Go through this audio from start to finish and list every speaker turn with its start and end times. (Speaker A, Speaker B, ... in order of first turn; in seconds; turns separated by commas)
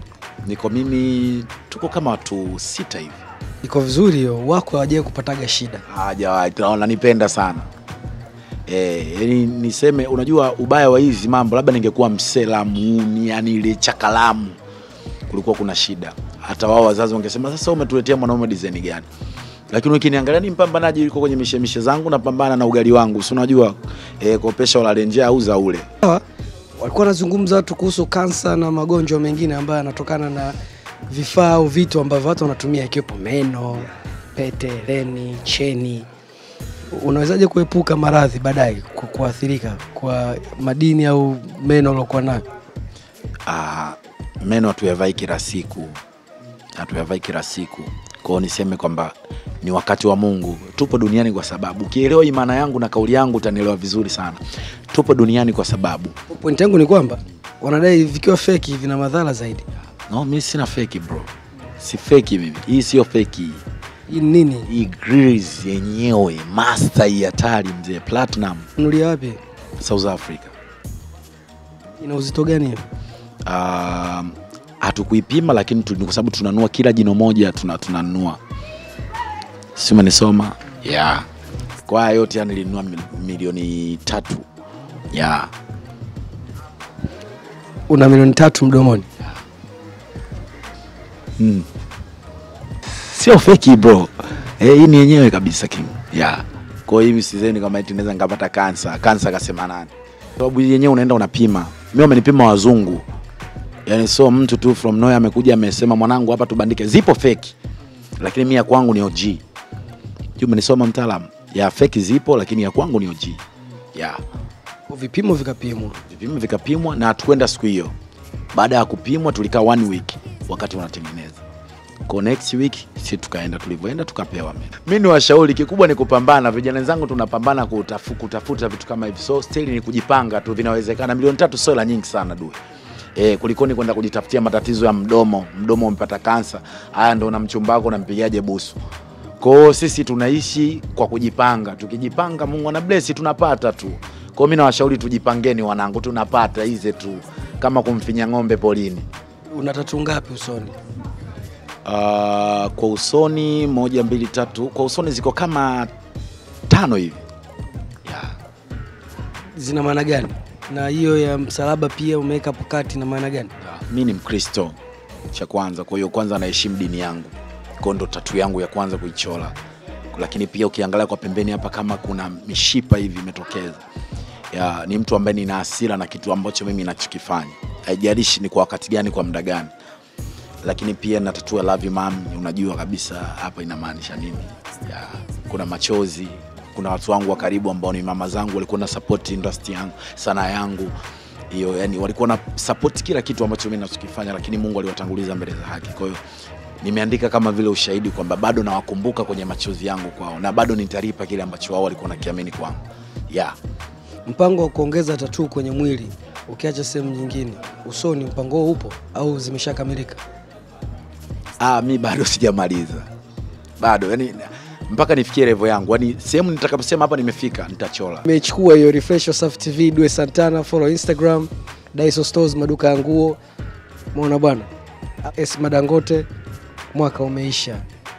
Speaker A: 0.4-3.2, Speaker B: 3.6-5.8, Speaker A: 5.9-7.7, Speaker A: 8.7-14.6, Speaker A: 15.3-19.1, Speaker A: 19.7-25.9, Speaker B: 26.8-30.6, Speaker B: 31.1-36.1, Speaker B: 36.9-42.5, Speaker A: 43.5-46.0, Speaker A: 46.8-56.1, Speaker B: 56.3-59.7, Speaker A: 60.1-63.6, Speaker B: 64.1-64.7, Speaker A: 64.7-68.7, Speaker B: 68.8-69.4, Speaker A: 69.8-70.5, Speaker B: 72.0-72.8, Speaker A: 73.5-78.4, Speaker A: 79.8-81.3, Speaker A: 81.9-84.5, Speaker A: 85.1-85.5, Speaker B: 87.9-89.1, Speaker A: 91.4-91.7, Speaker A: 93.0-103.0, Speaker A: 103.9-107.5, Speaker A: 108.2-109.4, Speaker A: 110.4-113.4, Speaker A: 114.0-114.2, Speaker B: 114.9-116.0, Speaker A: 116.1-117.9, Speaker A: 118.5-121.4, Speaker A: 122.1-132.6, Speaker A: 133.2-138.8, Speaker A: 139.4-149.1, Speaker B: 149.5-150.7, Speaker A: 151.8-155.9, Speaker A: 156.7-157.2, Speaker A: 158.1-158.3, Speaker B: 159.5-163.5, Speaker A: 163.6-164.8, Speaker A: 165.3-169.6, Speaker A: 170.1-173.8, Speaker A: 174.5-179.7, Speaker A: 180.6-190.9, Speaker A: 191.5-196.2, Speaker A: 196.8-203.6, Speaker B: 204.3-210.2, Speaker A: 211.6-213.1, Speaker A: 213.8-218.2, Speaker B: 218.2-223.4, Speaker B: 224.1-224.7, Speaker B: 225.3-226.3, Speaker B: 226.9-227.8